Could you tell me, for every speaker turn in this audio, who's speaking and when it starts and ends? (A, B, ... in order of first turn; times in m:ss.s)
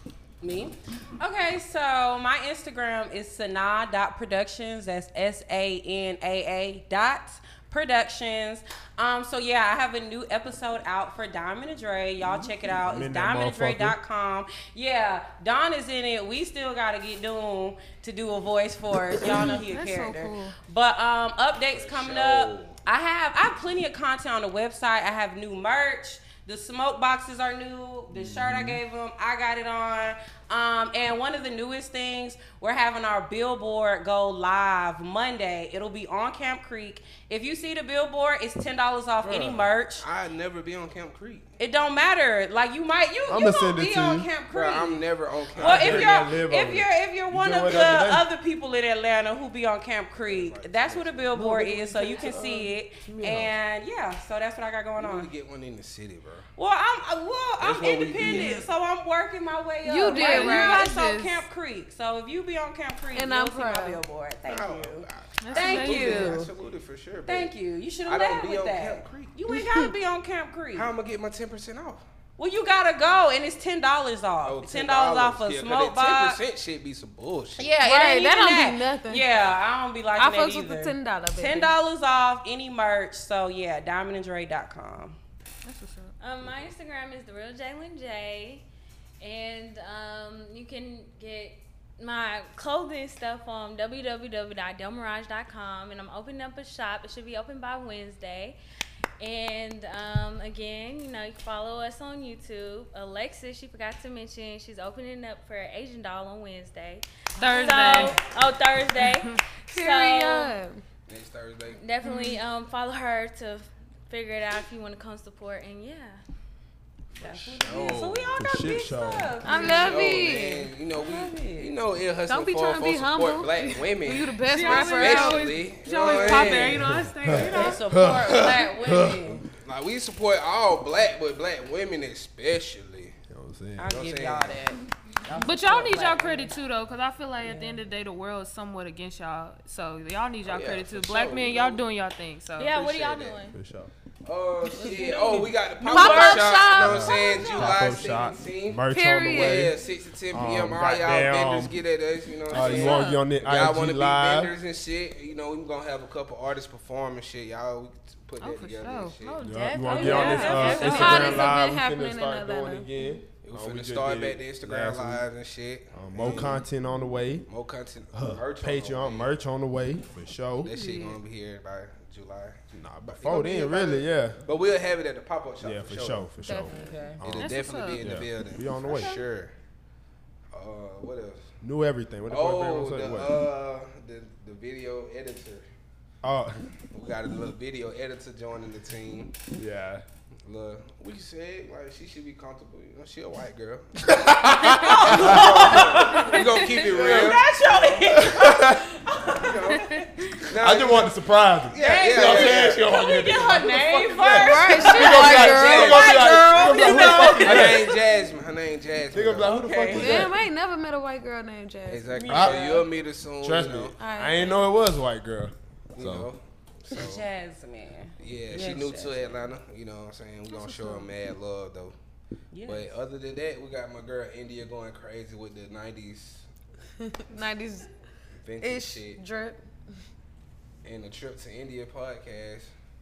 0:00.4-0:40.0 A
0:12.8-0:14.0 B
0:19.3-0:20.5 C
0:21.7-0:22.8 D
0:28.2-0:28.8 B
0:28.3-0:28.7 D
0:39.2-0:41.5 D
0:41.6-0:55.3 A
0:43.3-0:44.3 B
0:44.5-0:46.3 D
0:45.6-0:48.2 B
0:50.2-0:51.3 D
0:51.3-0:53.5 B
0:55.0-0:56.5 D
0:56.6-1:06.5 A
0:57.6-0:58.6 D
0:58.2-0:58.6 B
0:59.8-1:00.9 C
1:00.0-1:01.4 E
1:03.1-1:04.0 C
1:04.4-1:07.5 D
1:05.4-1:06.4 E
1:07.3-1:10.9 A
1:08.0-1:09.4 D
1:09.5-1:09.9 C
1:10.7-1:12.0 D
1:12.4-1:16.4 A
1:14.4-1:17.7 D
1:17.6-1:25.2 A
1:17.8-1:19.2 C
1:20.2-1:21.7 C
1:25.6-1:26.1 E
1:26.2-1:28.6 F
1:29.2-1:38.6 F
1:39.2-1:50.5 F
1:47.4-1:48.2 E
1:47.8-1:48.2 A
1:49.7-1:50.8 C
1:51.1-1:51.8 D
1:51.8-1:56.2 F
1:52.0-1:52.4 E
1:57.2-1:58.4 D
1:57.2-2:01.7 A
1:58.4-1:59.4 B
1:59.4-2:00.7 C
1:59.6-2:07.7 D
2:02.3-2:05.4 C
2:04.4-2:07.8 E
2:06.0-2:09.4 A
2:06.9-2:09.4 B
2:08.3-2:08.5 D
2:09.5-2:13.1 D
2:13.3-2:14.0 B
2:13.8-2:16.5 A
2:13.9-2:14.6 D
2:15.4-2:22.8 E
2:17.4-2:17.8 A
2:20.4-2:21.8 D
2:22.6-2:23.5 F
2:22.7-2:23.4 D
2:23.5-2:23.9 B
2:24.2-2:40.0 D
2:24.8-2:26.4 A
2:25.8-2:27.4 C
2:26.8-2:29.7 B
2:27.0-2:27.8 F
2:28.9-2:29.7 C
2:30.3-2:31.7 B
2:32.5-2:34.5 B
2:32.5-2:33.2 E
2:38.4-2:39.2 E
2:39.2-2:41.5 F
2:39.4-2:45.2 B
2:39.9-2:41.0 A
2:40.5-2:41.4 E
2:40.7-2:42.9 C
2:43.4-2:46.6 D
2:45.9-2:47.5 B
2:47.5-2:49.3 D
2:48.1-2:50.7 B
2:50.6-2:56.3 D
2:50.7-2:51.2 E
2:52.7-2:54.4 B
2:55.6-2:59.2 B
2:56.4-2:57.1 C
2:56.7-2:57.2 A
2:57.2-2:59.5 D
2:57.3-2:58.0 E
3:00.5-3:01.5 D
3:01.6-3:03.4 B
3:02.3-3:05.6 D
3:06.2-3:06.6 B
3:06.9-3:09.3 D
3:09.5-3:10.0 B
3:10.4-3:17.4 D
3:14.1-3:15.9 B
3:14.8-3:20.1 A
3:16.8-3:17.4 B
3:18.0-3:18.9 B
3:19.4-3:19.9 D
3:20.4-3:21.1 D
3:20.6-3:28.0 B
3:21.7-3:22.8 D
3:21.7-3:28.0 A
3:24.3-3:26.3 C
3:25.0-3:29.9 D
3:29.1-3:30.3 B
3:29.4-3:30.3 A
3:30.0-3:32.2 C
3:31.9-3:34.0 D
3:32.1-3:32.9 A
3:32.3-3:32.6 B
3:33.4-3:36.3 B
3:34.0-3:34.6 C
3:35.9-3:37.2 D
3:36.9-3:39.4 A
3:38.2-3:41.9 D
3:40.5-3:41.1 C
3:42.5-3:42.9 A
3:42.6-3:46.4 D
3:47.0-3:47.9 C
3:48.4-3:49.2 D
3:48.6-3:49.6 C
3:50.8-3:52.7 D